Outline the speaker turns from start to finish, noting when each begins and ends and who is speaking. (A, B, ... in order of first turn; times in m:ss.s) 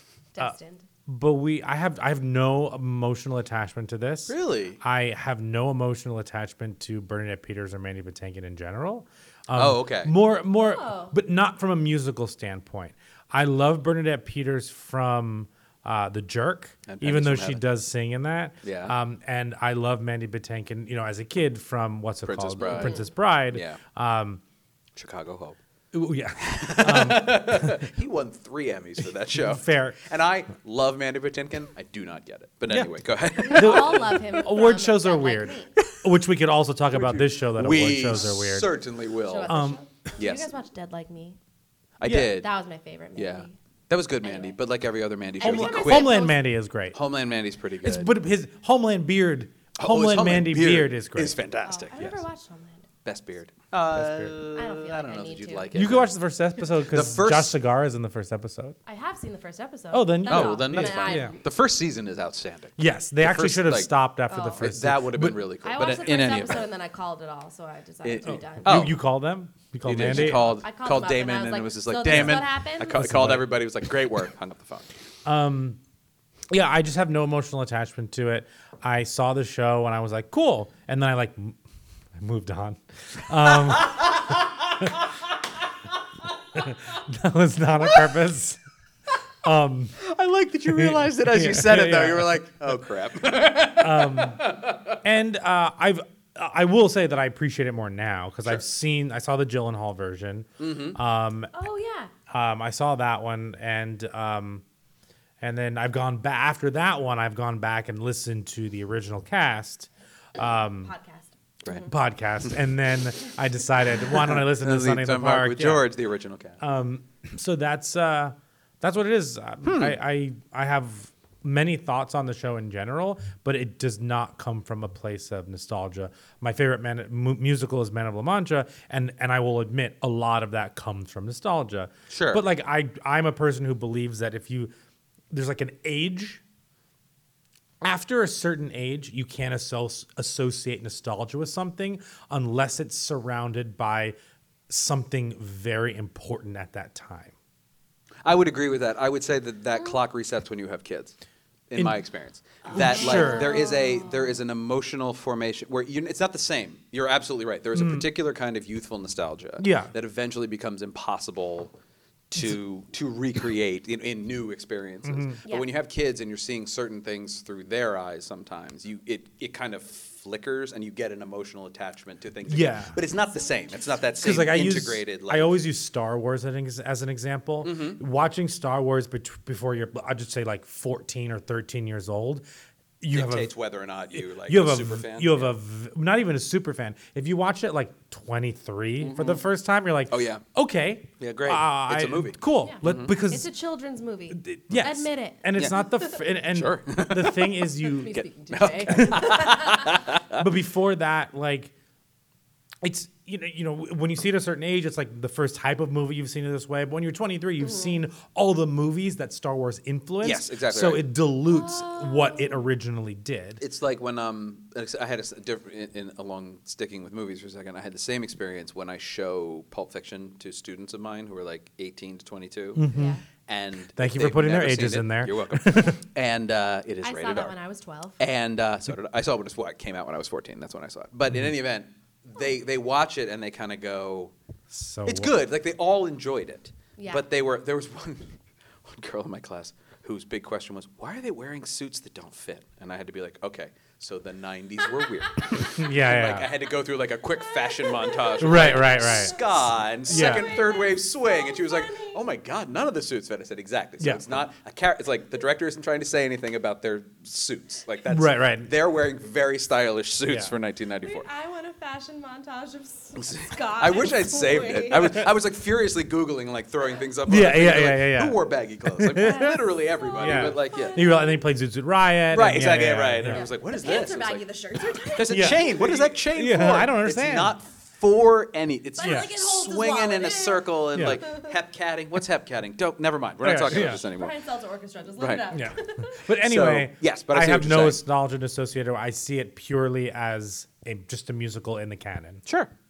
0:00.3-0:00.9 A
0:01.1-0:24.4 B
0:04.3-0:04.8 C
0:09.5-0:10.1 C
0:10.6-0:11.1 A
0:16.9-0:17.6 C
0:18.6-0:19.0 C
0:22.3-0:23.8 C
0:22.7-0:23.0 A
0:25.0-0:25.6 C
0:25.9-0:27.9 B
0:26.4-0:34.4 C
0:29.3-0:30.0 B
0:32.7-0:32.9 B
0:33.4-0:35.7 A
0:33.5-0:38.7 B
0:36.9-0:39.6 C
0:39.3-0:41.4 A
0:39.5-0:39.8 B
0:40.2-0:40.5 C
0:42.0-0:42.5 C
0:42.0-0:42.4 B
0:42.3-0:43.6 A
0:43.2-0:46.2 C
0:44.2-0:44.6 A
0:45.4-0:47.0 B
0:45.4-0:46.4 A
0:46.9-0:48.1 C
0:47.8-0:51.4 B
0:49.8-0:52.2 C
0:51.6-0:52.9 A
0:53.0-0:56.2 C
0:53.9-0:54.4 B
0:54.6-0:55.7 A
0:55.7-0:58.8 B
0:56.8-0:57.6 C
0:58.9-1:01.4 A
0:59.9-1:01.4 B
1:00.3-1:04.0 C
1:02.8-1:05.4 B
1:04.3-1:04.7 A
1:04.6-1:06.7 C
1:05.6-1:08.7 A
1:08.0-1:09.0 C
1:08.2-1:10.5 B
1:09.8-1:14.9 C
1:10.1-1:13.1 A
1:12.1-1:13.5 B
1:15.2-1:15.8 B
1:16.5-1:21.6 B
1:22.2-1:24.9 B
1:23.8-1:24.4 C
1:26.5-1:28.6 B
1:29.4-1:30.0 B
1:30.0-1:35.0 C
1:30.7-1:32.4 B
1:33.7-1:34.4 B
1:35.0-1:41.5 B
1:40.6-1:41.0 C
1:41.5-1:42.1 A
1:42.3-1:44.6 B
1:45.4-1:50.9 B
1:50.8-1:51.9 A
1:51.9-1:55.9 B
1:54.1-1:56.6 C
1:56.6-2:14.7 B
1:59.6-2:00.0 C
2:12.1-2:12.4 C
2:15.3-2:16.4 B
2:17.8-2:24.2 B
2:24.7-2:27.3 B
2:28.2-2:31.2 C
2:31.7-2:41.7 C
2:32.7-2:33.7 B
2:32.7-2:34.4 A
2:37.7-2:38.1 B
2:39.6-2:39.9 B
2:42.3-2:55.6 C
2:45.0-2:45.4 B
2:52.5-2:53.0 B
2:53.3-2:53.8 A
2:54.2-3:02.4 B
2:57.6-2:58.0 C
3:03.0-3:03.5 B
3:03.1-3:05.5 C
3:04.1-3:13.5 B
3:09.0-3:09.4 C
3:10.1-3:10.4 C
3:11.2-3:13.2 C
3:12.6-3:16.2 A
3:14.3-3:18.2 B
3:15.6-3:15.8 C
3:16.5-3:20.5 C
3:17.9-3:19.9 A
3:18.9-3:19.6 B
3:20.4-3:21.7 B
3:22.8-3:33.6 B
3:27.6-3:27.9 A
3:30.2-3:31.0 C
3:31.5-3:32.6 A
3:33.6-3:42.9 C
3:42.8-3:43.2 B
3:42.9-3:43.2 A
3:43.5-3:47.6 C
3:44.0-3:46.0 B
3:47.0-3:48.2 A
3:48.2-3:54.3 C
3:54.7-3:55.4 B
3:55.1-3:58.4 C
3:57.0-3:57.2 A
3:58.9-4:21.3 C
4:05.6-4:06.5 B
4:07.6-4:12.2 A
4:08.4-4:09.4 B
4:10.1-4:10.5 B
4:18.1-4:18.7 B
4:20.3-4:20.5 B
4:21.0-4:25.3 A
4:23.2-4:31.0 C
4:27.3-4:29.6 B
4:29.2-4:31.0 A
4:30.2-4:33.5 B
4:32.3-4:34.4 C
4:33.3-4:36.0 A
4:35.0-4:44.4 C
4:35.3-4:37.6 B
4:39.0-4:41.5 A
4:39.0-4:39.3 B
4:41.0-4:41.2 B
4:43.4-4:44.0 B
4:43.7-4:46.2 A
4:45.2-4:45.5 C
4:45.5-4:52.5 B
4:46.4-4:48.0 C